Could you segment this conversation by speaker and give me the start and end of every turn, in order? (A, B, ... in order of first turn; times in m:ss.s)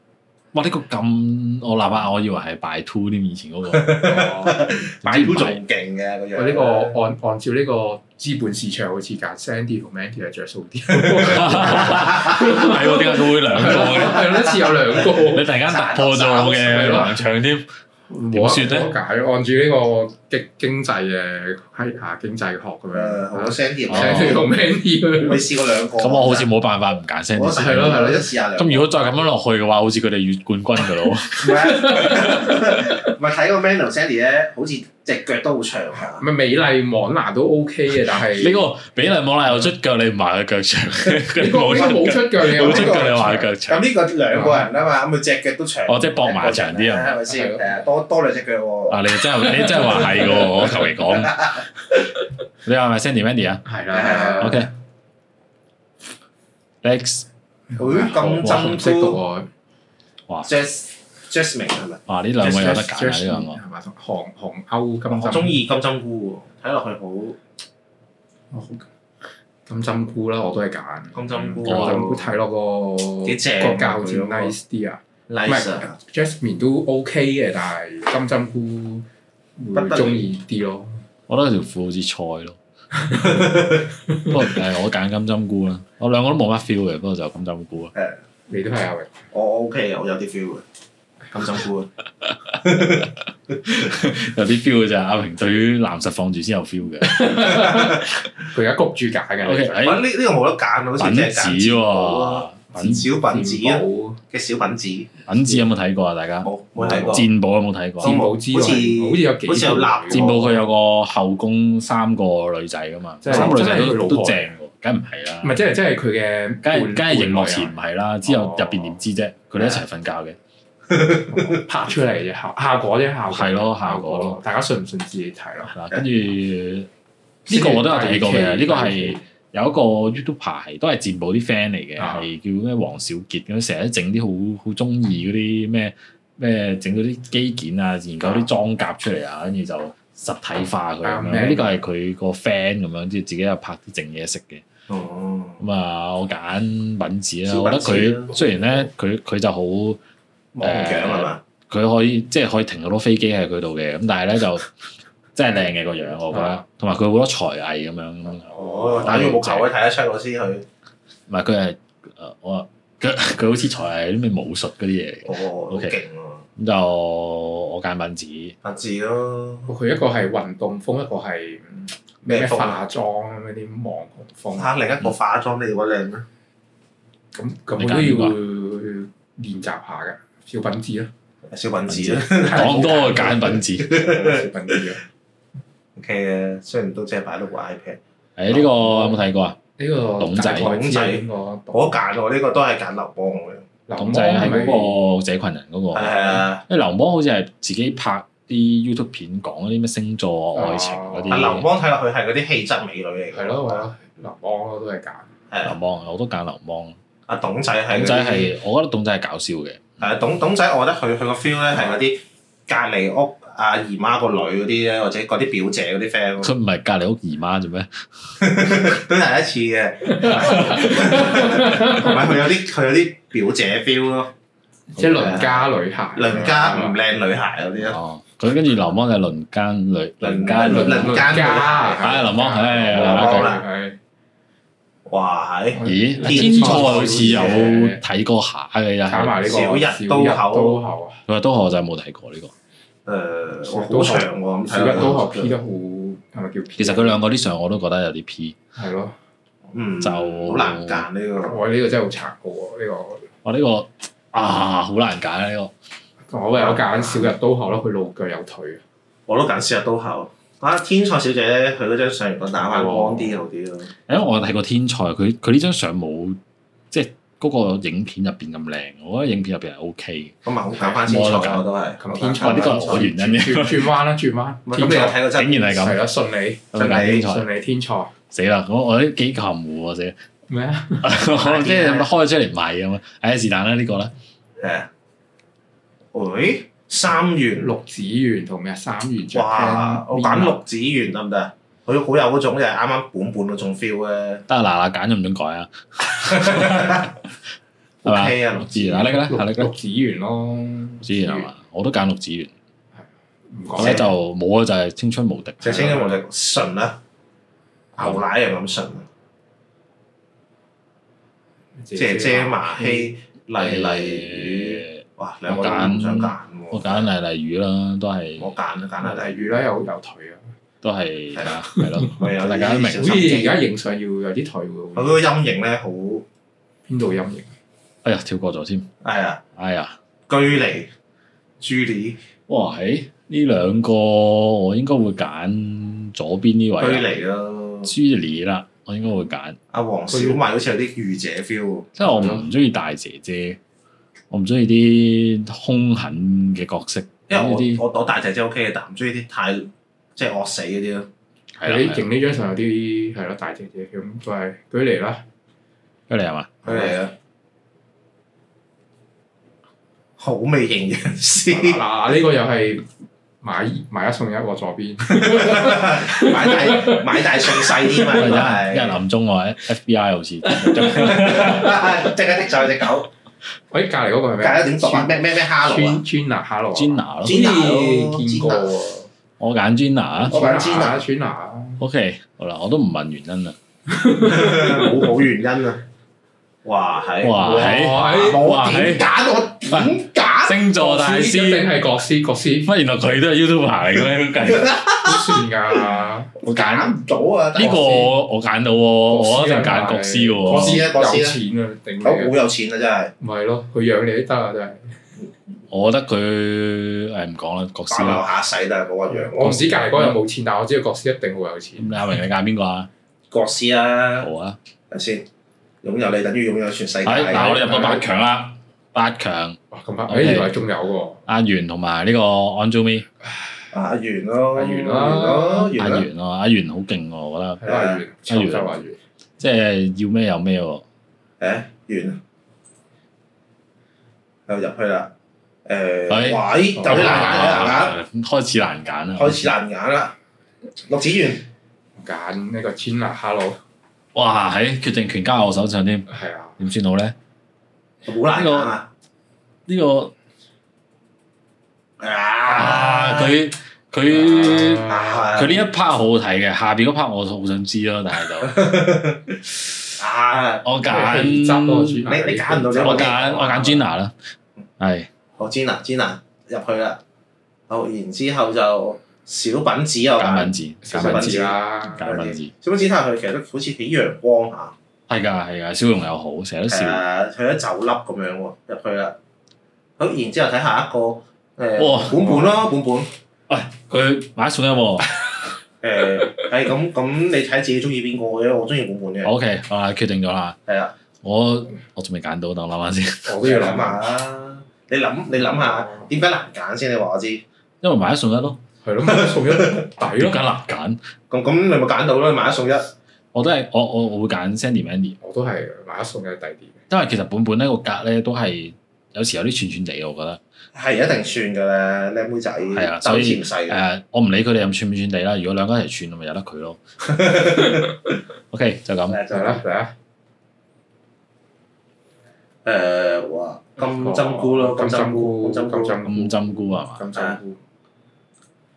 0:00.5-0:04.0 A
0:03.7-0:07.0 B
0:04.0-0:04.7 C
0:05.0-0:05.6 A
0:06.4-0:15.5 C
0:11.0-0:12.6 B
0:11.2-0:14.5 A
0:13.8-0:17.1 B
0:15.2-0:17.7 A
0:16.4-0:17.2 C
0:18.1-0:25.6 C
0:18.3-0:18.9 A
0:22.9-0:24.5 B
0:23.9-0:24.4 A
0:25.2-0:26.5 B
0:26.0-0:32.6 A
0:27.3-0:29.1 B
0:27.5-0:28.3 C
0:31.4-0:36.2 B
0:31.4-0:33.0 C
0:36.1-0:38.7 C
0:37.9-0:43.8 A
0:41.4-0:43.5 C
0:42.5-0:51.6 B
0:44.3-0:44.7 C
0:45.9-0:47.2 A
0:47.3-0:47.8 C
0:48.9-0:51.6 A
0:49.8-0:50.5 C
0:52.6-0:53.6 A
0:53.7-0:54.6 C
0:53.9-0:54.7 B
0:54.4-0:54.7 A
0:56.8-0:57.3 A
0:57.7-0:59.5 C
0:57.8-0:59.2 B
1:00.4-1:02.6 B
1:02.1-1:03.6 A
1:02.4-1:05.6 C
1:05.1-1:07.4 B
1:08.5-1:08.9 C
1:09.7-1:19.1 C
1:11.2-1:12.3 B
1:11.6-1:12.0 A
1:13.2-1:14.6 B
1:15.3-1:16.0 B
1:19.6-1:21.0 C
1:19.7-1:20.3 B
1:21.3-1:22.6 A
1:23.0-1:23.3 C
1:23.2-1:23.8 B
1:24.2-1:27.9 A
1:28.5-1:29.2 C
1:29.3-1:30.6 B
1:31.3-1:31.9 B
1:32.6-1:33.1 B
1:33.7-1:37.7 A
1:37.0-1:39.9 C
1:39.4-1:40.0 A
1:39.8-1:45.1 B
1:41.0-1:43.1 A
1:42.8-1:44.2 C
1:45.3-1:48.2 A
1:45.4-1:45.6 C
1:46.4-1:47.3 B
1:48.0-1:50.3 C
1:48.0-1:50.6 B
1:50.1-1:55.6 A
1:53.2-1:54.5 C
1:53.3-1:53.6 B
1:55.4-1:59.0 C
1:56.6-2:00.4 A
2:00.9-2:01.6 B
2:01.3-2:05.7 C
2:03.3-2:04.4 A
2:05.7-2:06.9 A
2:07.5-2:09.2 C
2:07.5-2:24.6 A
2:12.0-2:12.3 C
2:21.0-2:21.8 C
2:24.9-2:25.6 B
2:25.6-2:30.0 A
2:27.5-2:28.9 B
2:30.5-2:31.4 B
2:30.6-2:34.7 A
2:35.4-2:39.7 A
2:36.3-2:36.6 C
2:38.4-2:39.1 C
2:38.6-2:40.7 B
2:41.3-2:46.0 A
2:45.2-2:46.4 B
2:46.6-2:48.6 A
2:48.6-2:49.7 B
2:49.7-2:54.8 C
2:52.3-2:52.8 B
2:54.5-2:56.2 B
2:57.4-3:01.1 C
2:57.8-2:58.4 A
3:01.5-3:04.9 B
3:01.9-3:03.9 A
3:02.1-3:05.0 C
3:06.0-3:08.0 B
3:08.4-3:09.6 A
3:08.5-3:09.2 C
3:09.8-3:12.0 C
3:10.2-3:10.7 A
3:10.5-3:13.7 B
3:13.9-3:15.0 C
3:14.0-3:21.7 A
3:15.9-3:16.6 B
3:20.6-3:21.6 C
3:21.3-3:23.8 B
3:23.3-3:25.3 C
3:25.6-3:27.0 A
3:27.3-3:28.5 B
3:27.9-3:29.9 A
3:30.0-3:36.5 B
3:36.4-3:38.4 A
3:38.4-3:44.3 B
3:40.1-3:42.3 C
3:40.4-3:41.3 A
3:45.0-3:45.5 A
3:45.0-3:47.0 C
3:45.2-3:48.0 B
3:47.8-3:51.5 A
3:50.2-3:52.4 B
3:50.5-3:54.0 C
3:52.0-3:53.5 A
3:52.9-3:53.6 B
3:55.1-3:57.8 B
3:55.7-3:58.0 C
3:55.8-3:59.4 A
3:59.1-4:01.2 C
3:59.4-4:00.8 B
4:01.3-4:02.5 A
4:03.1-4:05.5 B
4:03.6-4:07.2 C
4:06.8-4:08.6 A
4:08.8-4:09.2 C
4:09.7-4:11.6 B
4:10.0-4:11.1 A
4:11.4-4:13.3 C
4:13.4-4:15.7 A
4:16.3-4:18.8 C
4:16.6-4:17.3 B
4:19.3-4:23.9 B
4:22.6-4:23.4 C
4:24.1-4:26.4 A
4:26.9-4:31.7 A
4:30.4-4:33.1 B
4:32.0-4:38.1 C
4:32.4-4:33.9 A
4:34.7-4:35.8 B
4:35.3-4:36.0 A
4:36.7-4:37.5 A
4:36.8-4:37.3 B
4:38.3-4:40.2 A
4:40.5-4:41.1 C
4:41.0-4:44.1 A
4:41.2-4:42.1 B
4:44.6-4:44.9 B
4:46.1-4:47.7 B
4:47.6-4:50.6 C
4:49.3-4:54.4 B
4:54.5-4:57.2 A
4:56.2-4:57.1 B
4:58.0-4:59.1 B
4:58.0-4:59.7 A
4:59.3-5:01.5 C
5:01.0-5:02.5 A
5:03.5-5:04.1 C
5:03.8-5:06.0 A
5:03.8-5:04.1 B
5:05.6-5:07.0 B
5:05.7-5:06.2 C
5:08.0-5:09.1 B
5:11.8-5:13.1 C
5:12.0-5:17.1 B
5:13.6-5:18.5 A
5:18.4-5:19.6 B
5:19.0-5:20.4 C
5:20.8-5:23.2 A
5:21.8-5:22.2 C
5:22.1-5:23.6 B
5:23.0-5:25.2 C
5:25.0-5:26.2 B
5:26.9-5:27.5 C
5:28.0-5:28.9 A
5:29.0-5:29.4 B
5:29.6-5:30.0 A
5:30.3-5:30.9 B
5:31.6-5:32.2 B
5:32.5-5:37.1 A
5:36.8-5:37.9 B
5:37.8-5:39.6 A
5:39.7-5:42.0 B
5:40.1-5:40.4 C
5:42.0-5:43.6 A
5:42.0-5:42.4 C
5:44.3-5:47.8 A
5:47.3-5:51.1 B
5:51.6-5:52.1 A
5:51.6-5:55.2 C
5:56.1-5:56.6 A
5:56.6-5:57.0 C
5:56.6-5:57.1 B
6:00.2-6:01.8 B
6:01.5-6:02.9 C
6:03.4-6:08.4 C
6:05.2-6:09.0 B
6:08.1-6:11.9 A
6:10.5-6:11.9 C
6:10.8-6:13.1 B
6:13.7-6:19.1 C
6:14.4-6:16.0 B
6:16.7-6:17.4 A
6:17.2-6:18.7 B
6:19.4-6:20.4 A
6:20.2-6:21.8 C
6:20.3-6:21.0 B
6:21.8-6:23.6 A
6:23.9-6:25.1 C
6:24.2-6:25.8 B
6:26.6-6:30.6 B
6:27.2-6:29.1 A
6:27.4-6:28.5 C
6:29.7-6:31.7 A
6:30.8-6:32.7 C
6:32.6-6:34.8 A
6:34.5-6:35.4 B
6:34.9-6:37.0 C
6:36.4-6:38.1 B
6:37.6-6:40.8 A
6:39.1-6:42.4 C
6:40.5-6:41.4 B
6:42.0-6:43.1 B
6:43.2-6:45.0 C
6:45.7-6:48.3 A
6:47.9-6:49.6 B
6:49.1-6:52.2 C
6:49.4-6:50.2 A
6:51.8-6:52.9 A
6:53.3-6:54.3 B
6:54.2-6:54.6 A
6:54.9-6:55.3 B
6:55.8-6:57.9 B
6:57.0-7:00.6 A
6:57.3-6:58.1 C
6:59.7-7:01.2 C
7:01.3-7:03.1 A
7:03.3-7:03.7 C
7:03.7-7:06.1 B
7:04.5-7:05.7 C
7:05.7-7:07.7 A
7:07.6-7:09.0 C
7:07.7-7:08.0 B
7:08.3-7:08.8 A
7:09.4-7:10.8 A
7:11.4-7:12.2 B
7:14.5-7:15.1 B
7:15.6-7:18.0 B
7:16.1-7:19.5 A
7:16.8-7:17.7 C
7:19.2-7:20.2 B
7:20.8-7:21.5 B
7:22.0-7:23.6 C
7:24.2-7:26.1 A
7:26.1-7:26.6 C
7:26.6-7:27.2 A
7:28.0-7:28.9 B
7:28.3-7:28.8 A
7:29.7-7:30.1 A
7:32.0-7:33.4 B
7:32.5-7:38.6 A
7:34.1-7:35.4 C
7:34.4-7:35.6 B
7:38.4-7:39.4 B
7:40.0-7:40.7 B
7:40.6-7:42.0 A
7:40.9-7:43.2 C
7:42.1-7:43.9 B
7:42.8-7:44.2 A
7:44.8-7:45.1 A
7:45.4-7:47.0 B
7:47.7-7:54.8 B
7:50.2-7:52.5 A
7:50.8-7:52.1 C
7:55.1-7:57.0 A
7:56.7-7:59.2 B
8:00.0-8:03.1 B
8:01.8-8:02.5 A
8:03.5-8:05.1 A
8:05.8-8:09.3 B
8:09.2-8:10.6 A
8:10.7-8:10.9 B
8:11.2-8:13.3 A
8:13.2-8:14.1 C
8:13.4-8:17.4 B
8:15.5-8:16.1 C
8:17.8-8:18.6 A
8:18.8-8:20.5 C
8:19.0-8:19.9 B
8:20.1-8:21.0 A
8:21.3-8:22.9 B
8:23.3-8:25.2 A
8:25.2-8:26.8 C
8:26.9-8:30.4 A
8:30.7-8:33.8 B
8:32.8-8:37.3 A
8:37.2-8:37.8 B
8:38.5-8:39.2 A
8:39.1-8:39.6 B
8:39.3-8:39.9 C
8:42.6-8:46.0 B
8:43.8-8:47.6 C
8:46.1-8:47.0 A
8:47.1-8:47.4 B